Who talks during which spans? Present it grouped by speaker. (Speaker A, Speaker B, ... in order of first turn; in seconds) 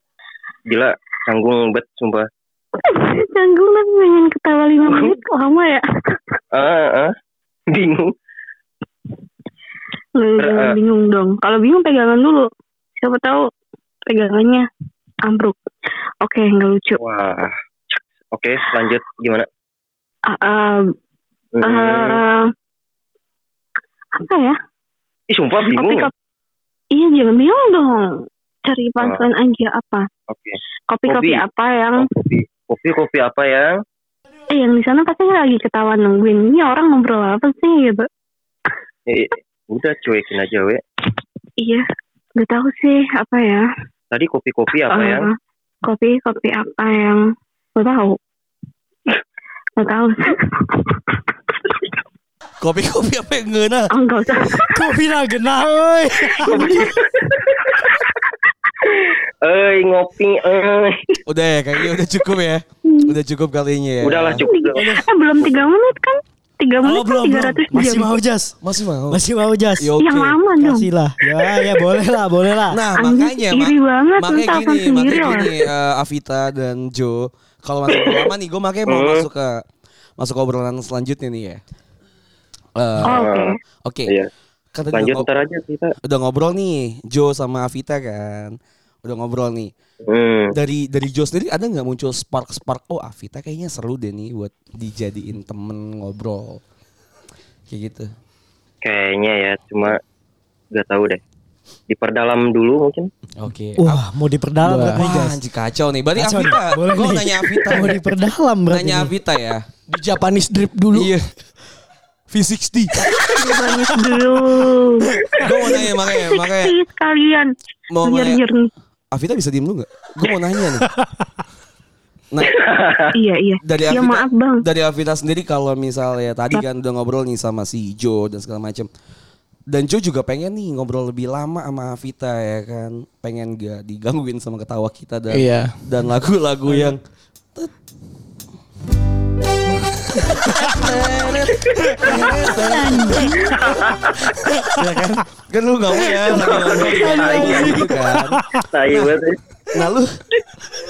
Speaker A: 0.7-2.3, 4.9-5.2, 6.5-7.1, 7.7-8.1, 10.4-10.8, 17.0-19.5, 21.5-22.2, 25.3-26.1, 30.3-31.4, 32.0-33.7, 39.1-40.8, 44.1-45.3, 56.5-58.0, 58.8-61.2, 64.0-65.5, 77.9-78.3, 78.9-79.3, 83.0-83.5, 84.9-85.9, 90.0-90.5, 98.8-100.0, 100.7-101.2, 101.9-103.1, 122.4-123.1, 143.6-144.2, 146.2-147.7, 148.7-149.4
Speaker B: 2.8-6.4, 10.2-12.5, 13.0-13.4, 14.1-14.7, 15.2-15.6, 16.2-17.0, 20.3-20.9, 21.6-22.5, 24.1-24.6, 25.7-26.1, 26.9-30.1, 30.9-32.2, 34.5-38.1, 41.6-41.8, 42.4-43.6, 44.9-47.2, 47.8-48.2, 49.8-51.1, 53.9-54.9, 56.5-56.9, 62.9-63.1, 64.4-68.1, 70.0-71.9, 72.9-75.7, 83.0-83.6, 113.3-118.7, 123.1-124.7
Speaker C: 52.6-53.9, 61.3-64.4, 68.6-69.2, 69.8-70.4, 72.7-79.6, 80.2-81.6, 82.8-83.2, 83.8-84.1, 84.7-85.3, 86.0-89.7, 90.5-96.6, 97.7-98.1, 103.4-104.0, 104.9-108.0, 108.7-109.7, 110.9-111.2, 112.3-113.1, 115.4-116.8, 117.9-118.4, 119.1-120.8, 122.3-122.6, 123.6-128.9, 129.7-137.0, 140.6-143.5, 144.7-148.4, 149.7-150.2
Speaker D: 54.7-56.5, 64.8-65.0, 66.8-68.6, 69.1-69.9, 70.6-72.8, 103.8-105.4, 106.2-109.1, 142.1-143.8, 146.7-148.6
Speaker E: 104.6-105.0, 109.9-111.2, 135.3-135.7